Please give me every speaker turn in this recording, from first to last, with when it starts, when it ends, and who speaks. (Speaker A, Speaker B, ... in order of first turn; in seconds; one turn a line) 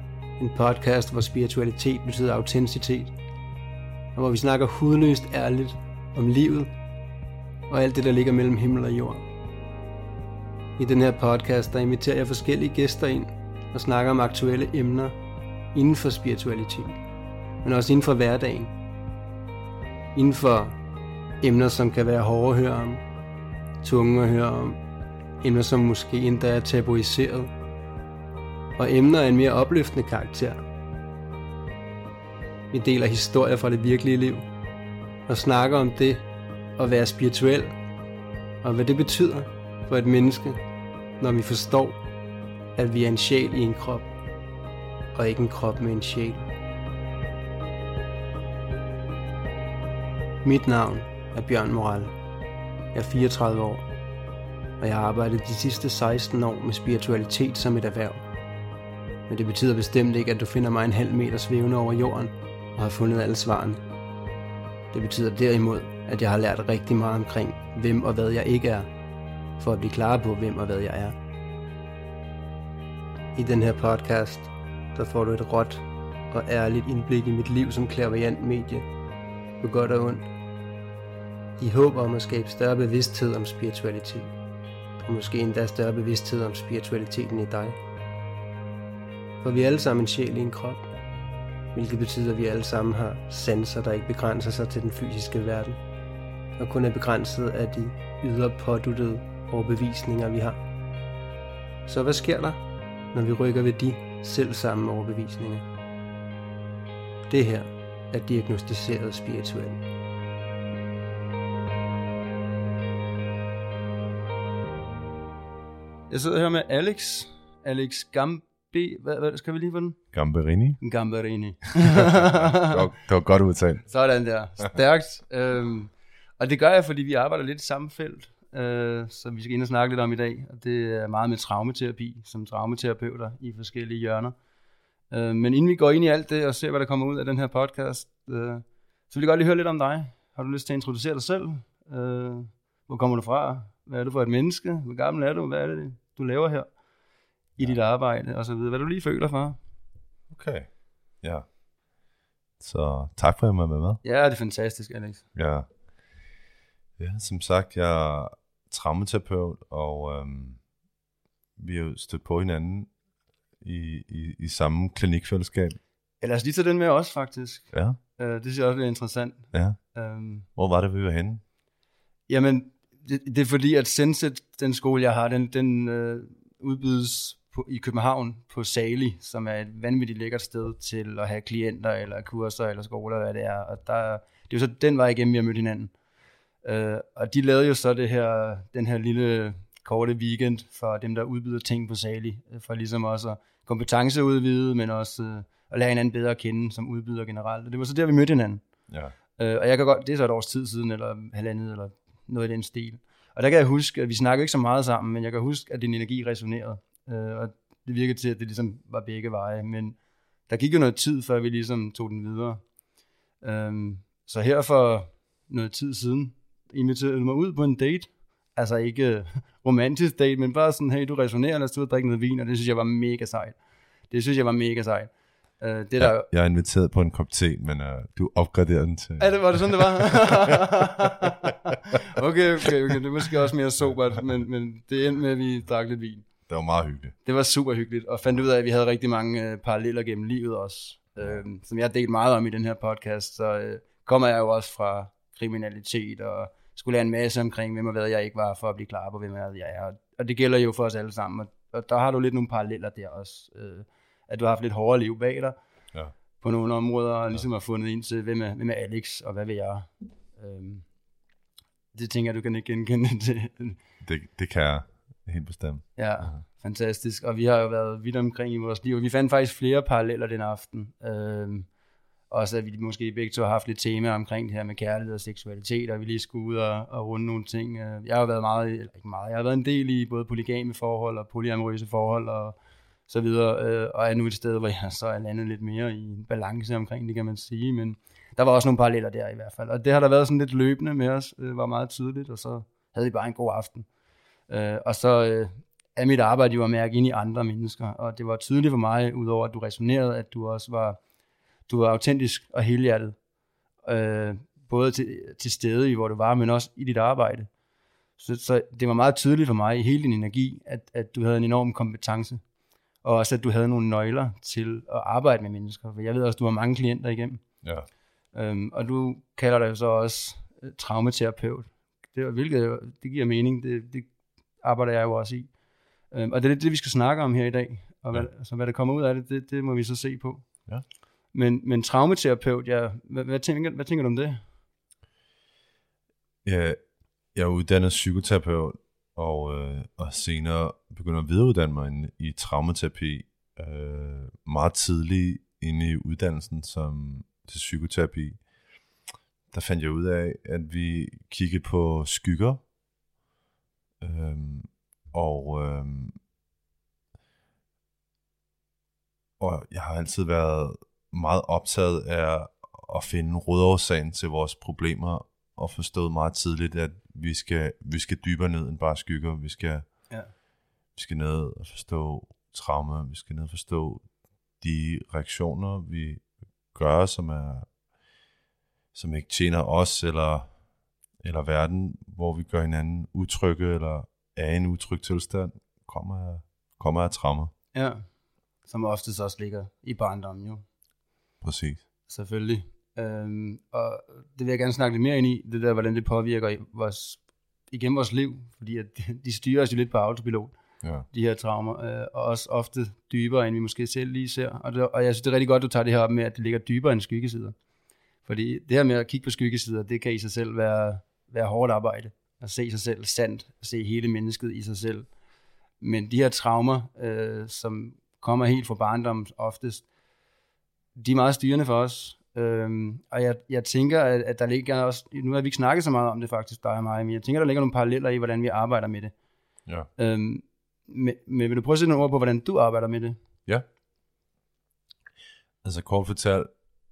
Speaker A: 0.4-3.1
Speaker A: 4.2-6.7
Speaker A: 7.7-9.3
Speaker A: 10.8-15.2
Speaker A: 15.7-17.0
Speaker A: 17.6-18.8
Speaker A: 20.1-20.8
Speaker A: 21.4-23.0
Speaker A: 23.8-24.8
Speaker A: 25.4-27.5
Speaker A: 28.8-30.6
Speaker A: 32.7-34.5
Speaker A: 35.3-36.3
Speaker A: 36.8-37.7
Speaker A: 38.6-40.6
Speaker A: 41.2-42.0
Speaker A: 42.8-44.1
Speaker A: 45.1-46.5
Speaker A: 50.4-52.1
Speaker A: 52.9-53.9
Speaker A: 54.8-58.3
Speaker A: 59.3-63.8
Speaker A: 64.9-68.9
Speaker A: 69.6-71.2
Speaker A: 73.3-78.9
Speaker A: 79.6-80.3
Speaker A: 81.6-84.3
Speaker A: 85.0-87.8
Speaker A: 89.4-90.9
Speaker A: 91.7-95.8
Speaker A: 96.6-100.6
Speaker A: 101.9-105.7
Speaker A: 107.3-109.8
Speaker A: 116.1-120.0
Speaker B: 120.1-120.8
Speaker A: 120.8-122.8
Speaker B: 121.8-123.9
Speaker A: 123.9-134.3
Speaker A: 135.1-146.7
Speaker A: 147.6-149.6
Speaker B: 150.3-150.7
Speaker B: 152.6-154.0
Speaker A: 154.0-155.3
Speaker B: 155.3-155.7
Speaker B: 157.0-160.6
Speaker B: 161.6-162.9
Speaker B: 163.6-165.8
Speaker A: 166.2-170.5
Speaker B: 167.7-168.0
Speaker B: 169.5-169.8
Speaker B: 170.6-171.4
Speaker A: 172.3-185.9
Speaker A: 186.6-198.6
Speaker B: 198.9-199.2
Speaker A: 199.4-210.0
Speaker A: 210.5-212.6
Speaker A: 213.4-223.6
Speaker A: 224.1-226.3
Speaker B: 226.0-231.5
Speaker A: 229.2-236.3
Speaker B: 236.5-237.2
Speaker A: 237.2-255.6
Speaker A: 256.4-260.9
Speaker A: 261.9-263.8
Speaker B: 264.0-266.4
Speaker A: 266.0-271.7
Speaker A: 272.3-282.6
Speaker A: 283.1-293.9
Speaker A: 294.5-301.0
Speaker A: 301.7-303.1
Speaker A: 303.9-307.5
Speaker A: 308.2-312.4
Speaker A: 313.0-317.4
Speaker B: 317.6-317.9
Speaker A: 318.3-324.1
Speaker A: 324.6-325.5
Speaker A: 326.1-330.4
Speaker A: 331.3-334.4
Speaker B: 336.4-336.8
Speaker B: 337.3-348.4
Speaker B: 349.5-352.6
Speaker B: 354.0-356.2
Speaker B: 359.4-369.9
Speaker B: 371.0-374.1
Speaker B: 374.6-377.7
Speaker B: 378.9-380.5
Speaker B: 381.2-387.5
Speaker A: 387.7-388.1
Speaker A: 388.6-390.6
Speaker B: 391.4-391.8
Speaker A: 392.1-400.6
Speaker B: 400.8-401.1
Speaker A: 401.1-407.6
Speaker A: 408.2-415.1
Speaker A: 415.8-419.9
Speaker A: 420.9-429.1
Speaker A: 430.0-433.2
Speaker B: 435.6-436.5